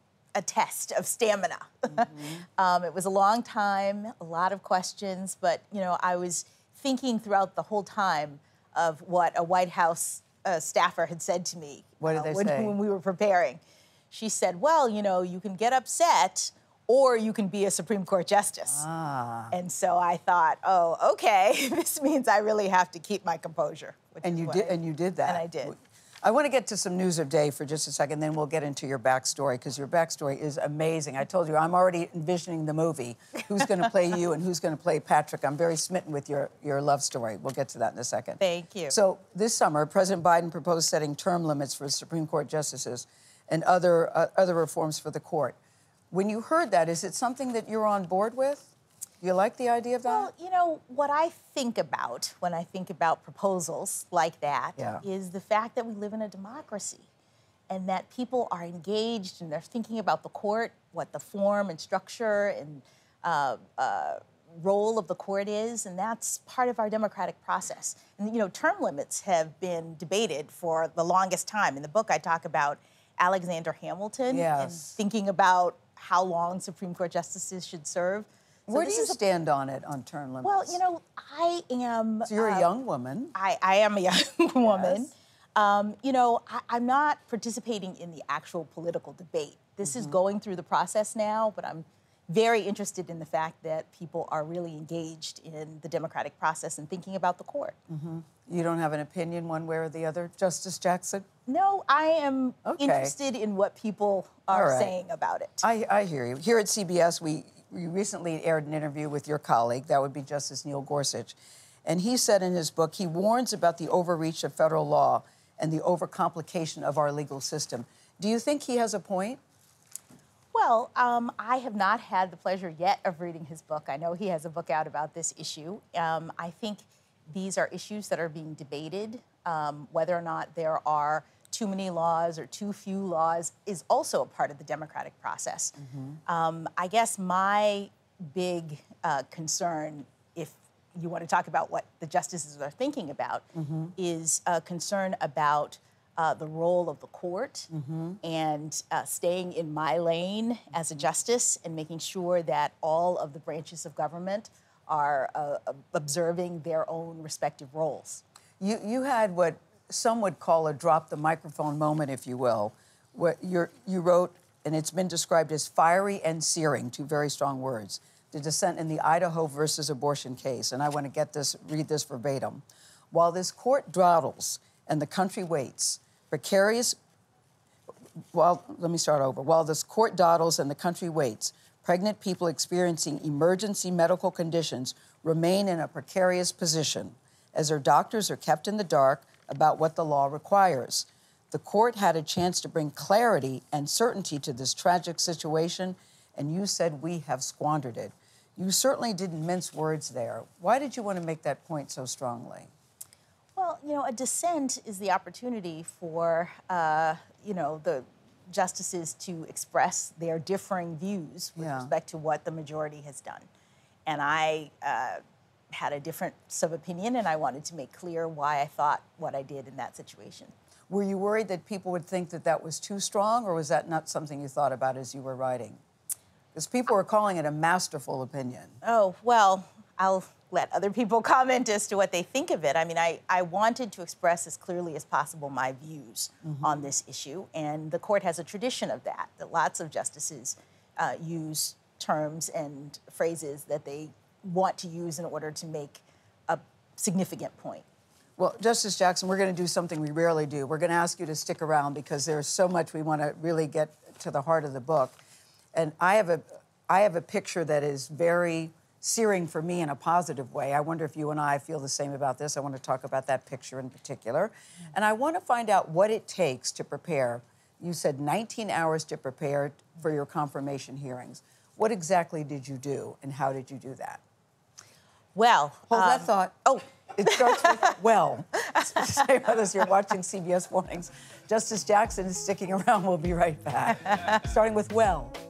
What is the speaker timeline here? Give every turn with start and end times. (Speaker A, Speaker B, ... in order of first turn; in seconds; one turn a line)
Speaker A: 0.3-18.9
Speaker B: 2.0-2.4
Speaker B: 12.0-12.8
Speaker B: 18.7-19.6
Speaker A: 19.5-25.8
Speaker B: 24.2-45.6
Speaker A: 38.4-39.0
Speaker B: 46.1-50.3
Speaker A: 50.0-57.1
Speaker B: 54.8-55.0
Speaker A: 57.7-79.2
Speaker B: 74.3-75.0
Speaker B: 78.7-80.8
Speaker A: 80.4-82.7
Speaker B: 82.3-83.3
Speaker A: 83.3-97.8
Speaker B: 84.6-85.1
Speaker B: 89.8-90.1
Speaker B: 97.9-101.3
Speaker A: 101.5-105.7
Speaker B: 102.7-103.1
Speaker B: 104.5-104.9
Speaker B: 105.6-119.4
Speaker A: 120.5-147.7
Speaker B: 135.8-136.2
Speaker B: 143.6-143.9
Speaker B: 147.7-148.2
Speaker A: 148.2-158.2
Speaker B: 158.6-177.0
Speaker B: 178.3-202.7
Speaker A: 203.6-213.5
Speaker B: 211.6-211.9
Speaker A: 214.1-215.2
Speaker A: 215.7-220.5
Speaker B: 220.9-225.8
Speaker B: 226.5-228.8
Speaker A: 228.8-247.9
Speaker B: 236.4-236.9
Speaker B: 248.4-255.2
Speaker B: 255.7-274.2
Speaker A: 275.3-278.0
Speaker B: 275.9-285.4
Speaker A: 278.8-279.2